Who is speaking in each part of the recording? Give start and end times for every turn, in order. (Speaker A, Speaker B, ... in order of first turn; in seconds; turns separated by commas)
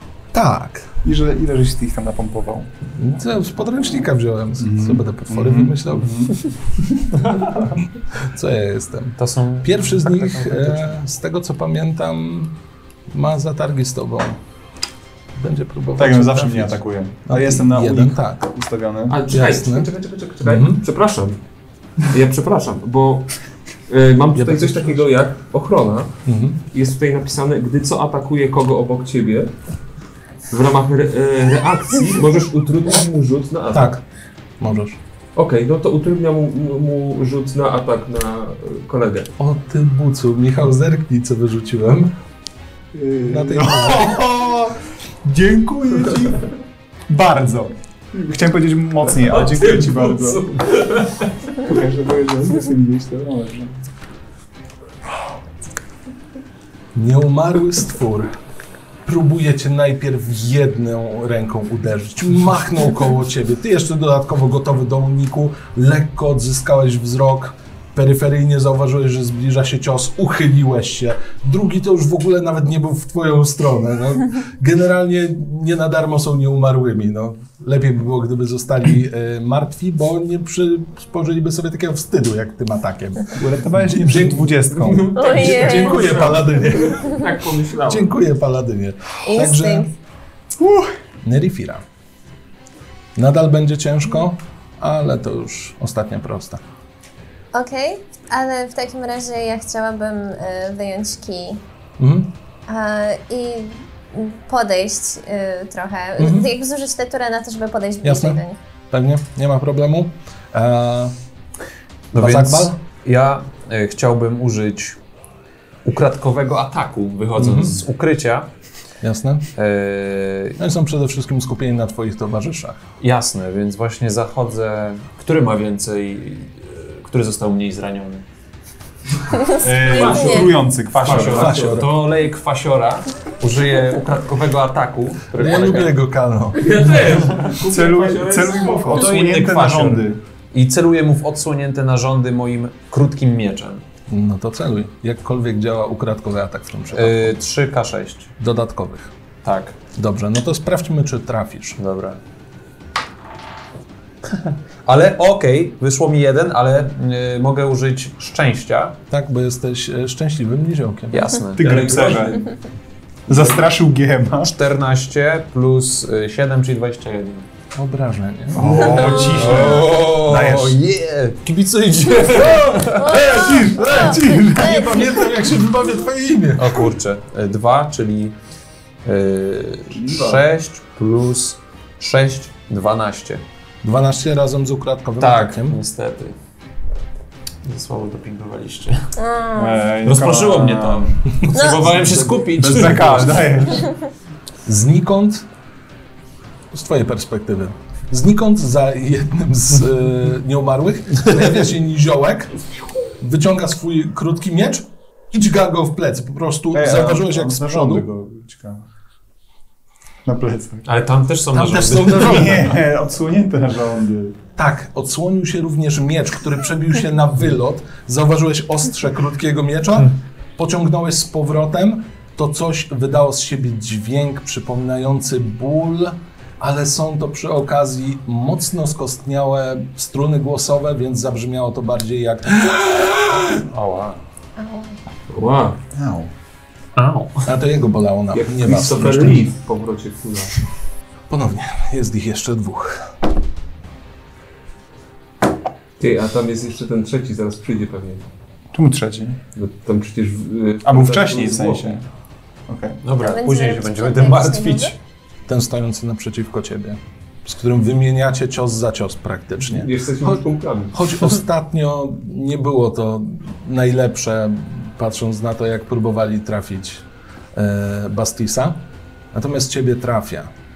Speaker A: 0.3-0.9, Speaker B: 1.0-2.7, Speaker A: 2.9-6.3, Speaker B: 4.6-7.2, Speaker A: 8.1-12.6, Speaker C: 9.2-10.9, Speaker A: 13.1-14.4, Speaker A: 15.3-18.4, Speaker B: 16.0-19.2, Speaker D: 19.1-21.4, Speaker A: 19.3-19.9, Speaker A: 20.4-20.8, Speaker D: 22.0-26.2, Speaker A: 24.3-25.1, Speaker A: 26.2-26.6, Speaker D: 26.7-29.5, Speaker D: 30.5-33.9, Speaker A: 33.7-34.0, Speaker A: 34.6-35.0, Speaker D: 35.3-39.3, Speaker A: 39.4-42.1, Speaker B: 42.9-46.6, Speaker A: 43.2-44.2, Speaker B: 47.1-50.5, Speaker D: 49.2-51.6, Speaker B: 51.5-53.7, Speaker A: 56.9-58.4, Speaker A: 59.0-84.4, Speaker B: 83.3-85.2, Speaker D: 84.7-88.1, Speaker E: 85.1-86.1, Speaker A: 85.3-87.2, Speaker A: 87.9-89.9, Speaker E: 89.2-89.9, Speaker B: 90.6-90.9, Speaker A: 91.2-91.8, Speaker A: 93.2-96.6, Speaker E: 97.5-101.6, Speaker A: 102.0-102.3, Speaker E: 102.7-108.6, Speaker A: 106.2-106.5, Speaker A: 108.0-111.1, Speaker C: 112.1-115.0, Speaker A: 112.1-112.8, Speaker C: 115.8-118.5, Speaker A: 117.4-117.8, Speaker A: 119.0-119.5, Speaker C: 119.5-120.6, Speaker A: 120.6-122.8, Speaker C: 123.0-128.2, Speaker E: 129.4-130.5, Speaker B: 129.6-131.6, Speaker D: 129.9-131.5, Speaker C: 130.9-135.9, Speaker A: 131.1-132.0, Speaker A: 135.3-136.7, Speaker D: 136.5-139.1, Speaker B: 137.6-140.2, Speaker C: 138.9-143.8, Speaker A: 144.1-147.4, Speaker C: 146.9-148.3, Speaker A: 148.4-149.1, Speaker C: 149.4-149.8, Speaker A: 149.9-151.8, Speaker C: 151.8-152.2, Speaker C: 154.3-159.0, Speaker A: 159.1-161.4, Speaker C: 161.1-162.4, Speaker B: 161.6-162.5, Speaker D: 161.6-162.4, Speaker B: 163.3-164.5, Speaker C: 163.3-163.6, Speaker C: 164.4-167.4, Speaker A: 167.7-168.9, Speaker B: 168.5-170.8, Speaker C: 168.6-173.5, Speaker E: 172.9-175.1, Speaker B: 173.1-174.9, Speaker A: 173.7-176.9, Speaker C: 176.6-178.3, Speaker C: 179.0-183.4, Speaker A: 183.8-185.8, Speaker C: 185.2-186.3, Speaker C: 187.6-189.1, Speaker E: 189.2-189.9, Speaker B: 189.5-191.4, Speaker C: 190.0-193.7, Speaker E: 191.5-191.9, Speaker B: 192.3-193.9, Speaker A: 194.6-195.4, Speaker A: 196.7-202.5, Speaker A: 203.2-208.1, Speaker B: 206.7-208.8, Speaker B: 210.2-210.8, Speaker C: 210.8-212.7, Speaker A: 211.5-212.8, Speaker B: 212.0-214.4, Speaker A: 214.6-233.6, Speaker C: 233.7-234.2, Speaker E: 234.6-235.0, Speaker D: 235.3-235.8, Speaker B: 235.9-236.3, Speaker C: 236.9-237.5, Speaker A: 237.4-239.5, Speaker D: 238.3-240.6, Speaker A: 241.3-243.1, Speaker D: 246.0-248.3, Speaker B: 248.7-249.4, Speaker D: 249.5-252.0, Speaker B: 250.8-252.0, Speaker B: 252.7-253.0, Speaker C: 253.0-254.9, Speaker E: 253.2-254.9, Speaker A: 255.5-270.5, Speaker D: 259.6-261.2